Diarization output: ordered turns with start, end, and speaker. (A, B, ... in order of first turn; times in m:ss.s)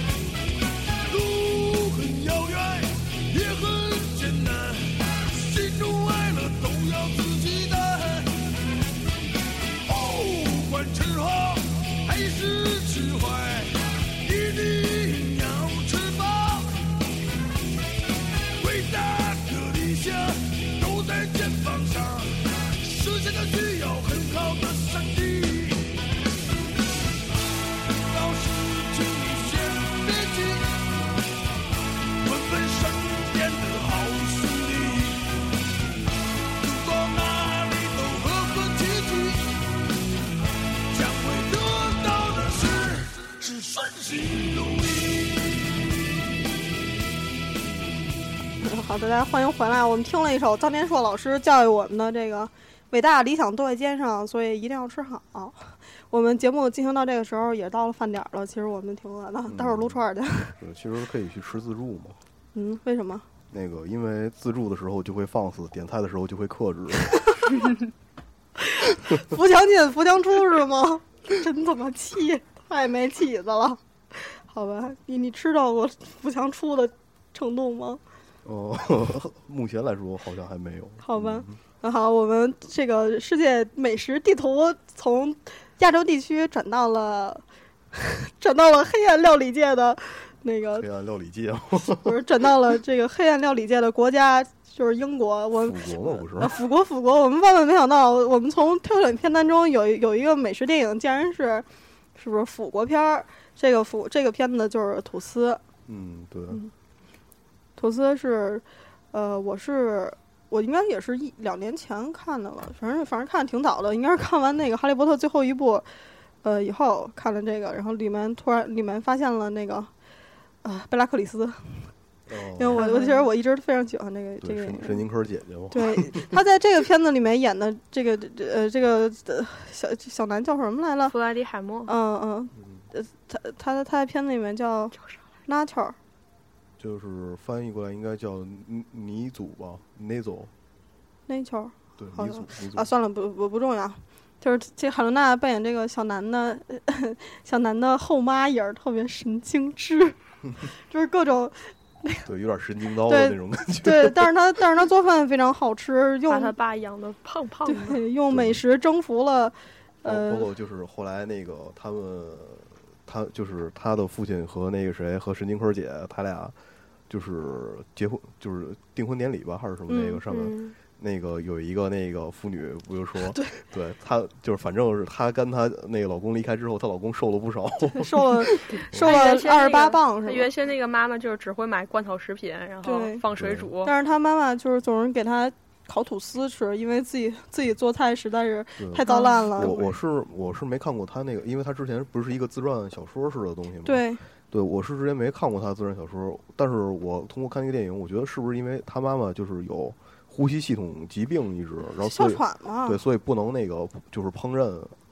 0:01.1-0:08.4 A
0:09.9-0:16.8 A
0:18.6-0:26.0 A
0:27.9-0:30.9 A
0:32.2-0:35.3 A
0:36.6-0:39.6 A
0:40.9-0:45.7 A
0:48.6-1:00.6 B
0:59.5-1:00.0 C
1:00.6-1:02.2 C
1:02.5-1:03.2 B
1:03.5-1:07.2 C
1:08.9-1:18.0 B
1:18.4-1:21.5 C
1:21.0-1:30.8 B
1:30.8-1:32.1 C
1:32.0-1:45.6 B
1:35.6-1:36.5 C
1:45.9-1:46.6 C
1:47.8-1:55.9 B
1:56.4-1:59.9 B
2:00.6-2:01.6 B
2:02.3-2:02.8 C
2:02.6-2:05.0 B
2:02.8-2:03.3 D
2:04.4-2:06.3 C
2:05.7-2:11.1 B
2:11.1-2:11.9 D
2:11.8-2:15.0 B
2:15.0-2:15.2 D
2:15.5-2:16.0 B
2:16.8-2:20.5 C
2:21.3-2:30.2 B
2:22.0-2:22.9 C
2:30.8-2:32.2 B
2:32.2-2:34.3 C
2:33.1-2:36.5 B
2:36.3-2:38.0 D
2:37.6-2:40.5 B
2:38.3-2:38.6 C
2:40.0-2:46.5 C
2:47.1-2:59.1 C
2:49.9-2:50.2 B
2:50.3-2:50.7 D
2:57.9-3:00.5 B
2:58.8-3:03.9 D
3:02.8-3:03.2 B
3:03.3-3:03.7 C
3:03.8-3:09.8 B
3:08.8-3:24.9 C
3:09.1-3:09.9 D
3:13.8-3:14.2 B
3:22.0-3:23.0 B